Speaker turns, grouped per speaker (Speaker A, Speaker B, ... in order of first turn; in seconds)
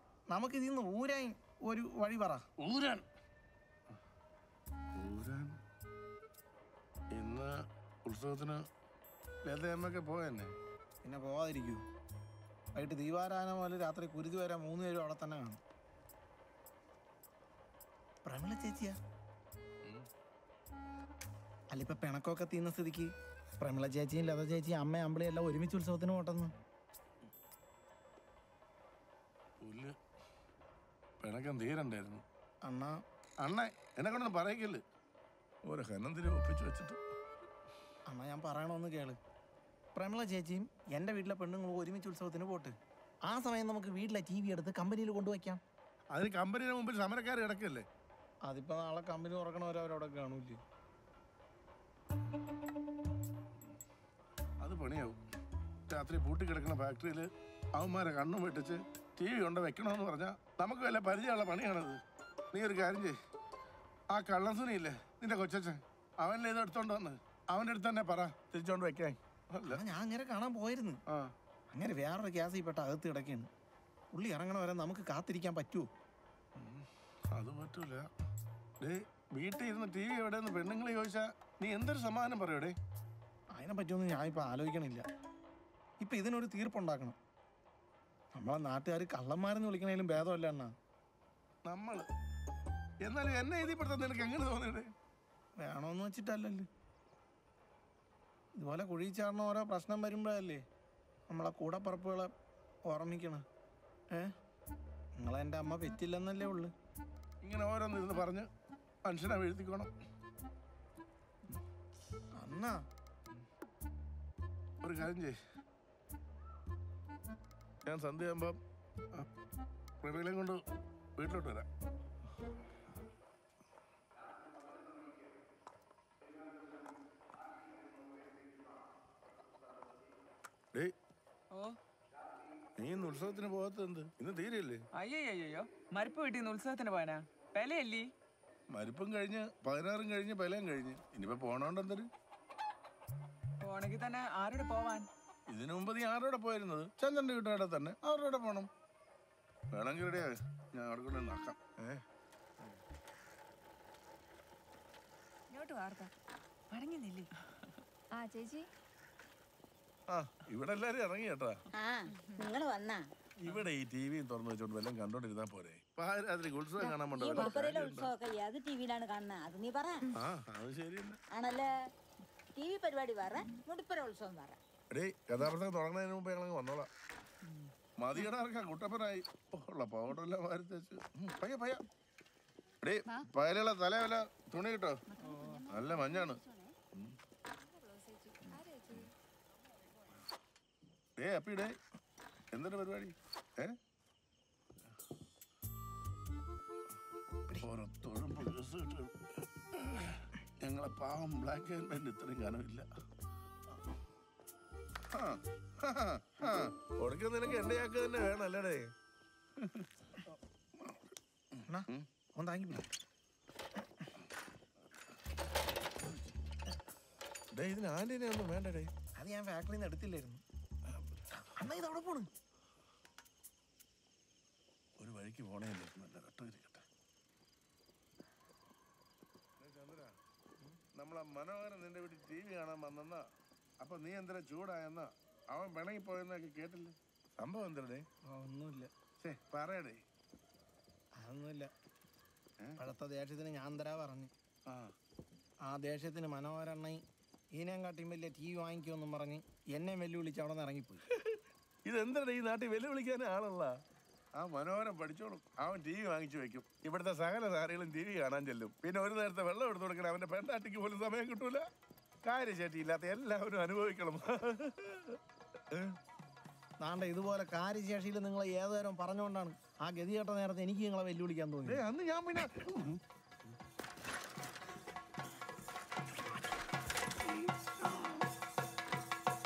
Speaker A: 0.3-2.4, 11.0-11.8, 12.8-15.6, 18.3-19.0, 21.7-26.5, 32.6-33.0, 38.1-39.2, 40.0-42.7, 43.3-45.6, 48.5-50.6, 69.7-71.0, 71.7-73.5, 74.1-75.9, 83.5-85.0, 86.0-87.2, 88.3-90.7, 95.6-96.7, 98.6-100.6, 101.3-102.3, 102.9-103.5, 105.2-106.7, 112.4-112.8, 211.7-212.9, 219.2-220.4, 221.4-222.3, 238.3-238.9, 241.2-241.7, 242.8-244.3, 245.7-247.0, 247.6-251.0, 266.8-271.8
Speaker B: 2.6-3.0, 5.0-5.6, 7.1-7.5, 8.1-8.6, 9.5-10.5, 29.6-29.9, 31.2-32.2, 33.4-34.8, 35.7-37.0, 46.1-47.9, 54.6-55.2, 55.9-62.0, 62.5-63.1, 64.1-69.8, 76.6-78.0, 78.8-82.8, 91.7-92.1, 93.0-94.9, 107.4-108.5, 109.0-109.9, 114.8-115.4, 117.9-118.6, 120.0-120.6, 121.2-121.7, 132.8-134.8, 138.7-142.1, 145.5-148.7, 149.7-152.0, 160.1-161.6, 163.4-168.1, 170.1-171.2, 174.9-176.9, 178.0-181.8, 182.8-185.0, 185.7-186.4, 188.4-189.1, 191.2-191.7, 192.5-193.7, 197.6-199.1, 199.8-202.9, 205.1-208.8, 209.6-209.9, 210.8-212.1, 217.5-218.9, 225.0-226.8, 229.6-230.1, 230.9-233.2, 233.8-238.1, 239.2-240.0, 251.2-253.7, 254.4-261.6, 262.2-265.2, 271.6-273.0, 277.8-278.2
Speaker C: 134.9-138.1, 143.6-145.1, 156.7-157.3
Speaker D: 155.5-156.1, 158.2-158.7, 187.6-189.1
Speaker E: 161.8-163.0, 166.8-170.0, 171.3-171.7, 172.6-174.6